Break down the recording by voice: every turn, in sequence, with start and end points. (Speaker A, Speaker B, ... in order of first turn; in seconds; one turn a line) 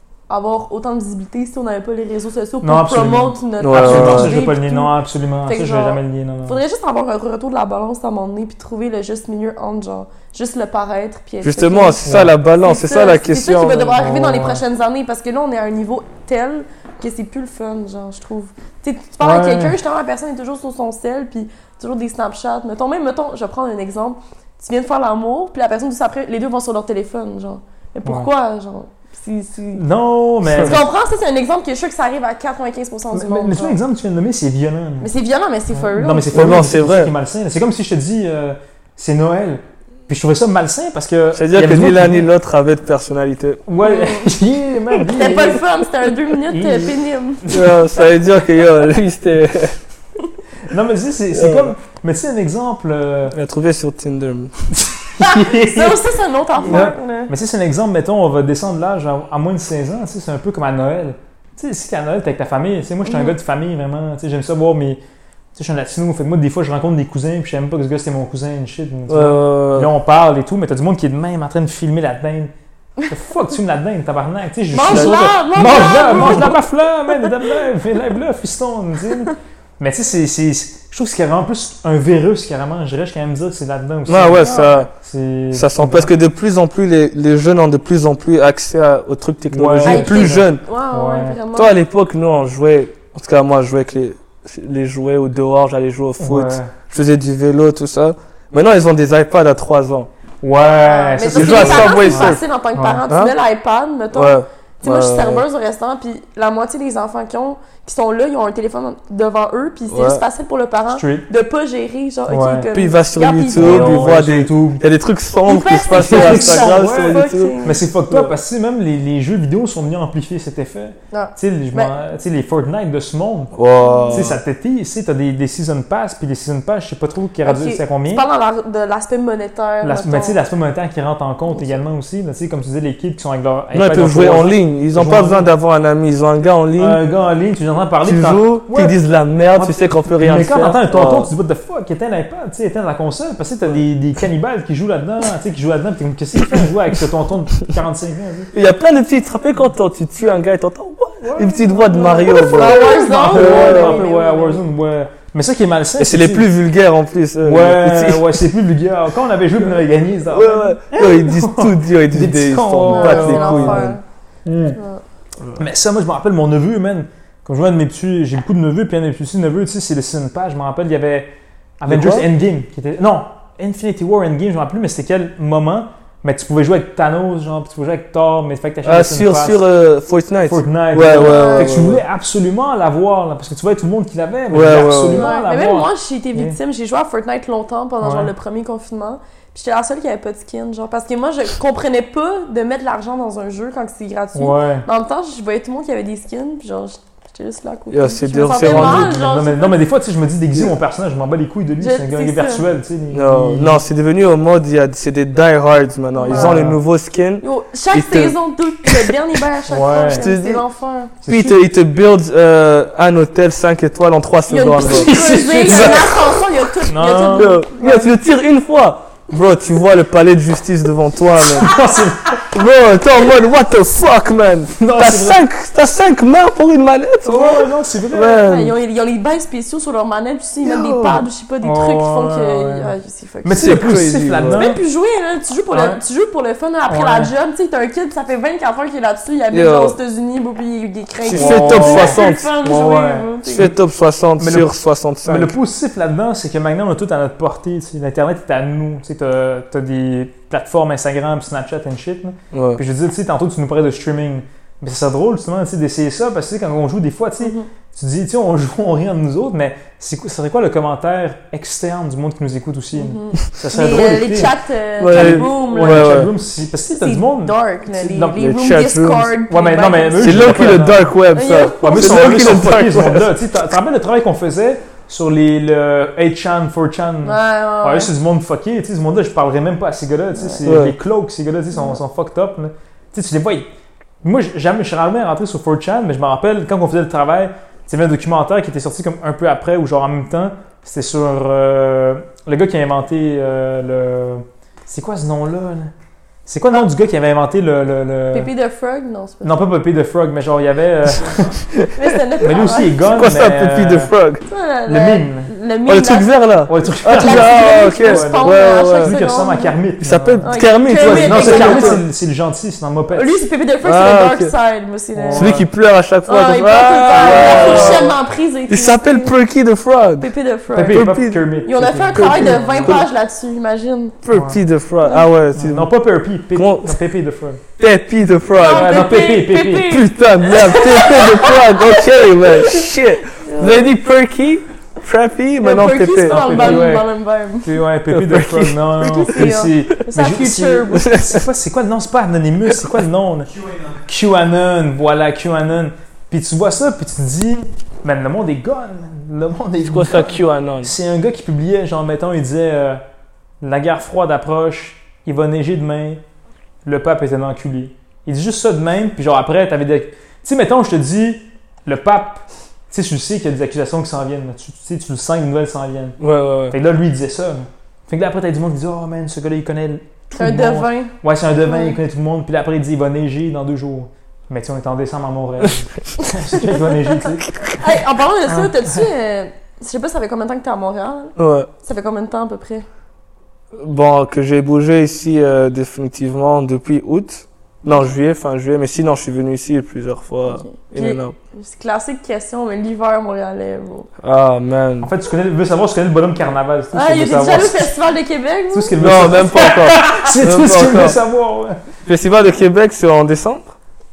Speaker A: 0.3-4.9
Speaker B: 2.6-6.6
Speaker C: 3.6-4.4
Speaker A: 5.5-29.8
Speaker C: 11.4-14.2
Speaker B: 12.0-12.3
Speaker B: 14.0-14.6
Speaker B: 19.2-19.8
Speaker B: 29.7-30.9
Speaker C: 30.4-30.8
Speaker A: 30.6-33.8
Speaker B: 33.1-35.1
Speaker A: 35.0-36.5
Speaker B: 35.7-42.2
Speaker C: 36.3-37.1
Speaker C: 41.3-43.6
Speaker B: 43.7-45.6
Speaker A: 43.8-44.3
Speaker A: 45.1-47.4
Speaker B: 46.5-47.8
Speaker C: 47.5-49.8
Speaker B: 50.7-53.4
Speaker C: 51.3-51.7
Speaker C: 53.3-54.5
Speaker B: 55.1-56.0
Speaker A: 55.2-57.3
Speaker B: 56.6-65.0
Speaker C: 56.6-56.9
Speaker A: 63.0-63.3
Speaker B: 65.5-72.5
Speaker C: 69.1-69.9
Speaker B: 73.0-86.1
Speaker A: 74.7-76.6
Speaker C: 74.8-75.2
Speaker C: 76.1-76.5
Speaker C: 84.0-84.9
Speaker A: 84.3-84.8
Speaker C: 85.5-90.6
Speaker B: 89.5-91.4
Speaker A: 89.8-91.8
Speaker C: 91.5-100.1
Speaker B: 96.2-96.7
Speaker B: 100.4-103.0
Speaker A: 100.8-114.2
Speaker C: 101.3-102.4
Speaker C: 103.1-103.3
Speaker C: 104.1-105.4
Speaker C: 109.9-110.2
Speaker B: 110.9-111.2
Speaker B: 112.3-112.7
Speaker C: 112.7-118.3
Speaker B: 113.5-114.8
Speaker A: 115.5-117.8
Speaker B: 115.9-123.5
Speaker A: 121.1-121.9
Speaker C: 123.5-124.4
Speaker A: 123.8-124.2
Speaker B: 124.1-128.2
Speaker A: 127.4-130.4
Speaker B: 129.8-135.5
Speaker C: 133.7-137.0
Speaker B: 136.8-139.0
Speaker C: 138.0-141.3
Speaker B: 139.5-148.5
Speaker C: 148.5-154.0
Speaker B: 151.2-156.5
Speaker A: 151.9-154.6
Speaker C: 156.0-158.4
Speaker B: 157.4-164.8
Speaker C: 159.6-163.9
Speaker A: 162.9-164.0
Speaker A: 164.7-165.0
Speaker B: 165.6-179.6
Speaker C: 171.9-172.3
Speaker C: 178.8-182.0
Speaker B: 180.5-186.6
Speaker A: 181.2-181.8
Speaker C: 184.5-185.3
Speaker A: 185.1-199.8
Speaker B: 188.0-188.3
Speaker B: 194.3-194.8
Speaker C: 197.9-199.1
Speaker B: 198.5-203.8
Speaker A: 201.8-202.6
Speaker C: 203.1-209.1
Speaker A: 206.2-206.6
Speaker B: 206.3-206.8
Speaker A: 207.4-211.1
Speaker B: 209.7-210.3
Speaker C: 210.1-210.6
Speaker B: 211.2-211.6
Speaker C: 211.3-215.1
Speaker A: 214.5-218.1
Speaker B: 214.9-217.6
Speaker C: 215.7-216.1
Speaker C: 217.3-221.7
Speaker B: 221.6-222.4
Speaker C: 222.5-228.7
Speaker B: 224.8-225.4
Speaker B: 227.2-228.5
Speaker A: 228.4-233.9
Speaker C: 230.6-231.2
Speaker B: 231.6-232.9
Speaker B: 233.4-234.8
Speaker C: 233.6-234.6
Speaker A: 234.5-243.7
Speaker B: 235.7-236.0
Speaker B: 236.9-237.3
Speaker C: 239.5-240.0
Speaker C: 241.2-242.5
Speaker B: 241.3-243.7
Speaker C: 243.4-245.5
Speaker B: 244.4-244.7
Speaker B: 245.2-264.6
Speaker C: 252.5-252.8
Speaker A: 257.4-257.7
Speaker A: 262.9-266.3
Speaker C: 265.0-266.3
Speaker B: 265.1-268.4
Speaker A: 266.9-272.4
Speaker C: 268.4-269.4
Speaker B: 269.5-283.6
Speaker C: 270.2-273.3
Speaker A: 277.2-278.1
Speaker A: 280.4-280.6
Speaker C: 280.6-281.0
Speaker A: 281.7-282.0
Speaker B: 284.2-295.9
Speaker B: 296.5-298.5
Speaker A: 298.3-299.6
Speaker B: 299.4-301.6
Speaker A: 301.9-303.0
Speaker B: 302.4-304.1
Speaker C: 303.0-304.4
Speaker A: 304.5-306.3
Speaker B: 304.9-305.5
Speaker C: 305.9-309.2
Speaker B: 306.7-313.4
Speaker A: 307.1-309.7
Speaker C: 310.0-312.0
Speaker A: 310.4-312.0
Speaker A: 313.1-315.6
Speaker C: 313.8-314.5
Speaker B: 315.1-315.7
Speaker C: 315.3-318.2
Speaker A: 316.2-319.3
Speaker B: 317.1-318.1
Speaker C: 318.7-320.3
Speaker A: 320.2-321.1
Speaker B: 320.7-323.0
Speaker C: 320.9-321.4
Speaker A: 321.6-324.2
Speaker C: 322.1-323.1
Speaker C: 324.2-325.9
Speaker B: 324.3-324.6
Speaker B: 325.5-327.6
Speaker C: 326.5-327.0
Speaker C: 327.8-329.0
Speaker A: 328.6-333.9
Speaker B: 328.6-330.0
Speaker C: 329.8-336.9
Speaker A: 335.6-337.7
Speaker B: 336.2-337.1
Speaker B: 337.6-353.0
Speaker C: 338.1-339.6
Speaker A: 339.0-341.2
Speaker C: 341.0-341.4
Speaker C: 349.9-350.9
Speaker B: 353.6-356.2
Speaker B: 356.8-366.2
Speaker C: 366.2-366.8
Speaker B: 366.7-379.1
Speaker A: 370.4-371.1
Speaker A: 371.6-372.0
Speaker A: 376.6-382.9
Speaker C: 381.4-381.7
Speaker C: 383.7-391.3
Speaker A: 390.5-394.1
Speaker C: 394.2-395.1
Speaker B: 395.0-397.9
Speaker A: 396.9-399.7
Speaker B: 398.7-401.8
Speaker C: 399.0-401.2
Speaker C: 402.1-403.8